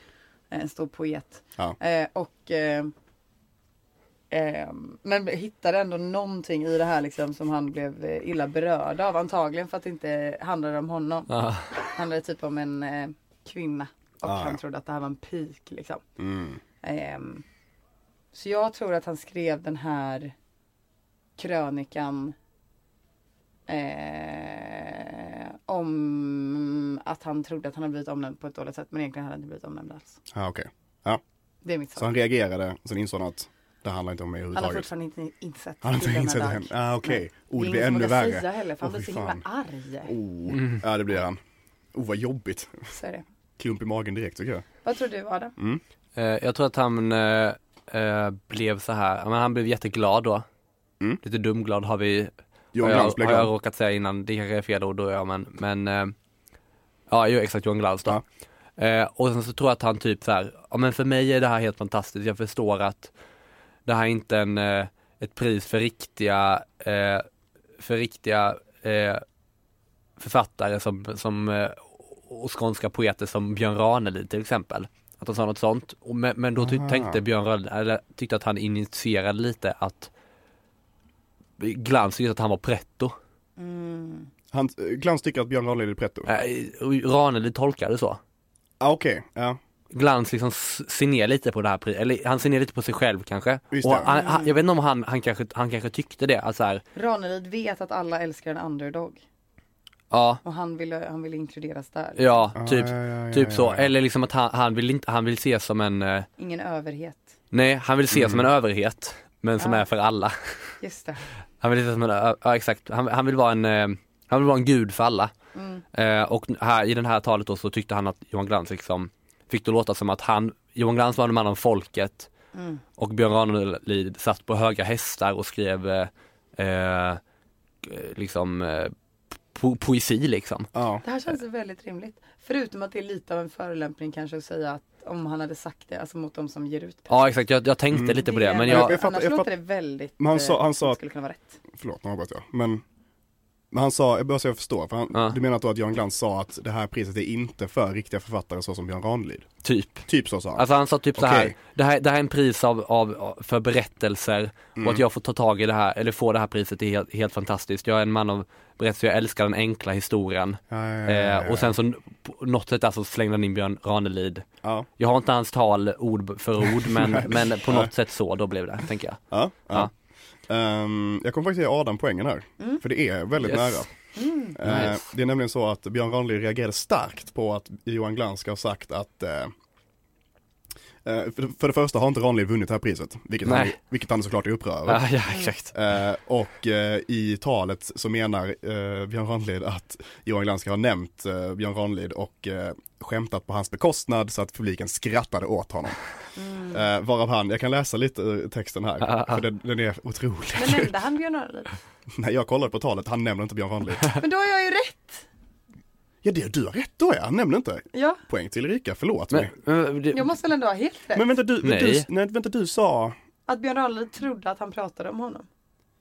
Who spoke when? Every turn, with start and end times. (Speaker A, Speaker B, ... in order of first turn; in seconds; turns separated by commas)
Speaker A: 0.5-2.9, Speaker A: 4.3-16.0, Speaker B: 11.3-11.8, Speaker C: 14.2-14.6, Speaker C: 16.2-16.6, Speaker A: 16.8-17.4, Speaker A: 18.3-20.3, Speaker A: 21.4-22.4, Speaker A: 23.7-30.2, Speaker C: 30.3-31.2, Speaker A: 31.6-32.1, Speaker C: 32.0-34.9, Speaker A: 34.5-40.1, Speaker C: 35.8-39.4, Speaker C: 40.1-41.4, Speaker B: 40.5-40.8, Speaker C: 41.9-42.9, Speaker A: 42.9-43.2, Speaker C: 43.6-44.7, Speaker A: 44.8-45.5, Speaker C: 45.6-45.8, Speaker B: 46.2-50.5, Speaker B: 51.2-56.1, Speaker C: 52.7-53.5, Speaker B: 57.1-58.2, Speaker B: 58.8-63.1, Speaker B: 63.9-67.3, Speaker B: 67.8-69.2, Speaker B: 70.2-80.1, Speaker C: 76.6-77.2, Speaker B: 81.6-83.2, Speaker A: 83.6-84.3, Speaker C: 84.5-86.3, Speaker B: 86.3-88.2, Speaker C: 88.8-89.6, Speaker B: 89.9-96.8, Speaker C: 93.7-94.1, Speaker A: 94.0-94.6, Speaker A: 97.0-99.2, Speaker B: 100.1-100.4, Speaker A: 100.4-102.5, Speaker B: 102.2-106.3, Speaker C: 102.6-103.9, Speaker A: 106.4-107.3, Speaker B: 107.5-110.8, Speaker C: 108.1-108.4, Speaker A: 109.6-109.9, Speaker A: 110.8-111.3, Speaker B: 111.6-115.3, Speaker A: 115.5-115.8, Speaker B: 115.9-122.3, Speaker A: 122.5-122.8, Speaker B: 123.0-127.2, Speaker B: 127.8-128.9, Speaker B: 129.5-130.7, Speaker C: 130.7-131.0, Speaker A: 131.0-137.3, Speaker B: 137.1-139.0, Speaker C: 137.9-139.5, Speaker A: 138.2-141.6, Speaker C: 140.2-141.0, Speaker C: 141.7-142.8, Speaker C: 143.7-149.5, Speaker B: 149.6-150.1, Speaker C: 150.1-151.6, Speaker B: 150.6-164.5, Speaker C: 154.8-155.0, Speaker C: 160.7-161.7, Speaker C: 164.6-164.9, Speaker B: 165.0-169.9, Speaker C: 166.9-167.9, Speaker C: 169.3-169.9, Speaker C: 170.5-173.9, Speaker B: 173.4-173.9, Speaker A: 174.2-174.6, Speaker C: 174.5-179.5, Speaker B: 174.6-175.0, Speaker C: 181.1-185.1, Speaker B: 183.4-183.8, Speaker B: 184.9-185.7, Speaker C: 185.7-196.0, Speaker A: 196.4-196.9, Speaker C: 196.7-200.9, Speaker B: 199.0-199.4, Speaker A: 200.6-201.8, Speaker C: 202.2-204.1, Speaker A: 204.2-205.2, Speaker C: 206.2-209.5, Speaker A: 207.9-208.2, Speaker B: 209.3-210.3, Speaker A: 210.1-211.4, Speaker C: 211.1-213.2, Speaker B: 211.6-212.1, Speaker A: 213.5-215.5